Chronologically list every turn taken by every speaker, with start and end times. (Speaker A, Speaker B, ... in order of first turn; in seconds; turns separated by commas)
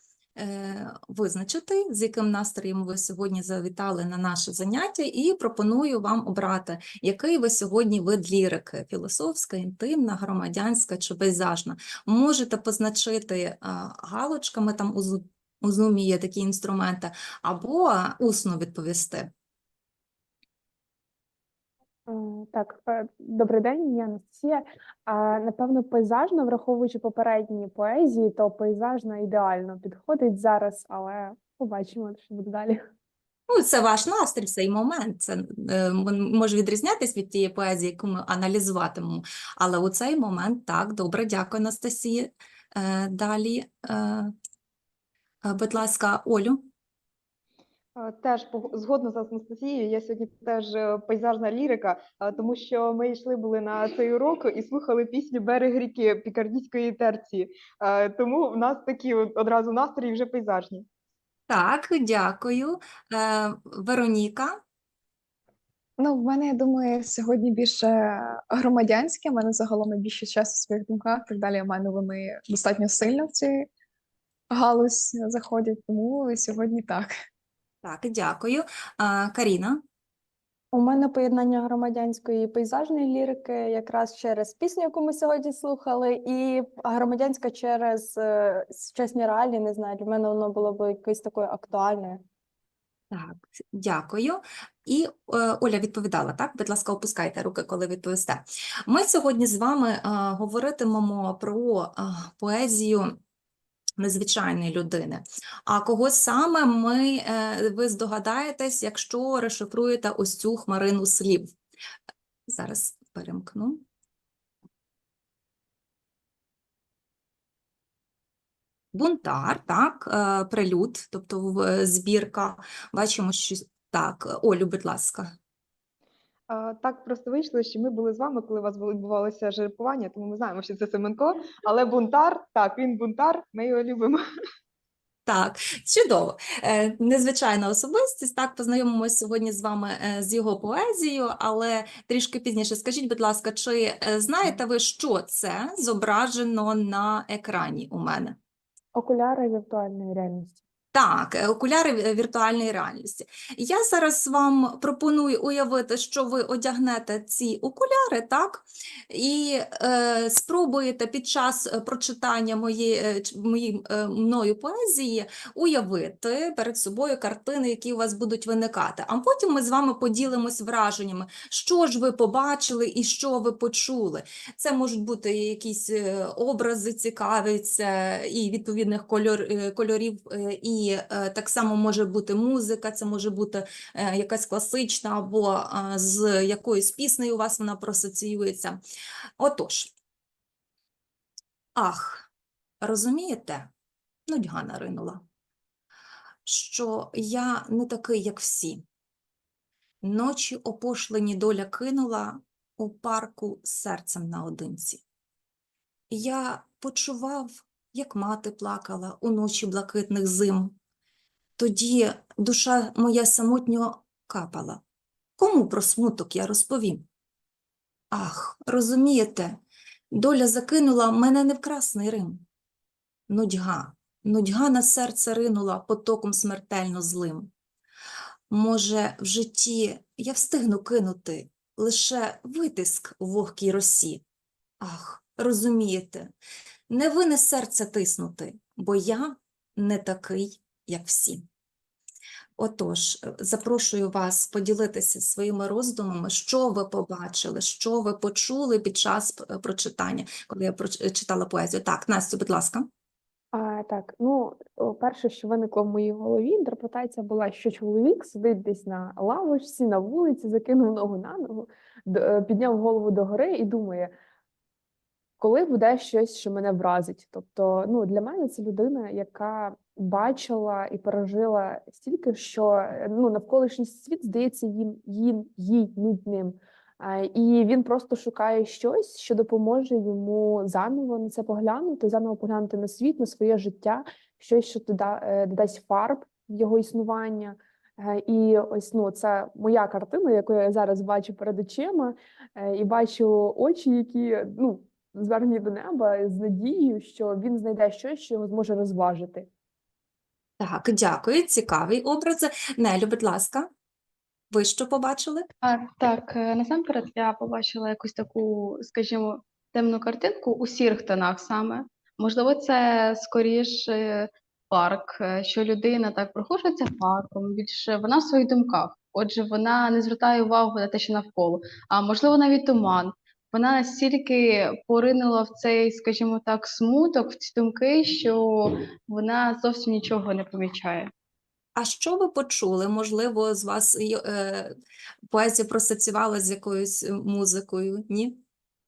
Speaker A: 0.4-19.3, Speaker B: 22.1-32.9, Speaker A: 33.5-44.3, Speaker A: 45.4-46.7, Speaker C: 48.0-60.9, Speaker A: 61.5-64.6, Speaker D: 66.0-73.7, Speaker D: 74.5-77.1, Speaker A: 77.8-79.8, Speaker E: 80.7-92.2, Speaker A: 93.1-103.2, Speaker A: 104.0-111.5, Speaker A: 112.5-113.8, Speaker A: 118.9-125.3, Speaker C: 126.5-134.2, Speaker A: 135.3-148.4, Speaker B: 148.9-150.6, Speaker A: 150.9-188.8, Speaker A: 189.4-189.9, Speaker A: 191.8-192.3, Speaker A: 192.8-193.7, Speaker A: 194.3-195.2, Speaker A: 196.5-198.8, Speaker A: 200.0-205.0, Speaker A: 206.1-210.8, Speaker A: 211.6-214.8, Speaker A: 215.4-217.1, Speaker A: 218.1-219.6, Speaker A: 220.1-222.4, Speaker A: 223.3-227.5, Speaker A: 228.5-234.2, Speaker A: 234.8-236.3, Speaker A: 236.9-241.4, Speaker A: 242.6-252.9, Speaker B: 253.5-264.1, Speaker B: 265.4-299.5, Speaker A: 300.6-303.7, Speaker A: 304.5-305.5, Speaker F: 305.6-331.1, Speaker A: 331.8-334.8, Speaker A: 335.3-338.4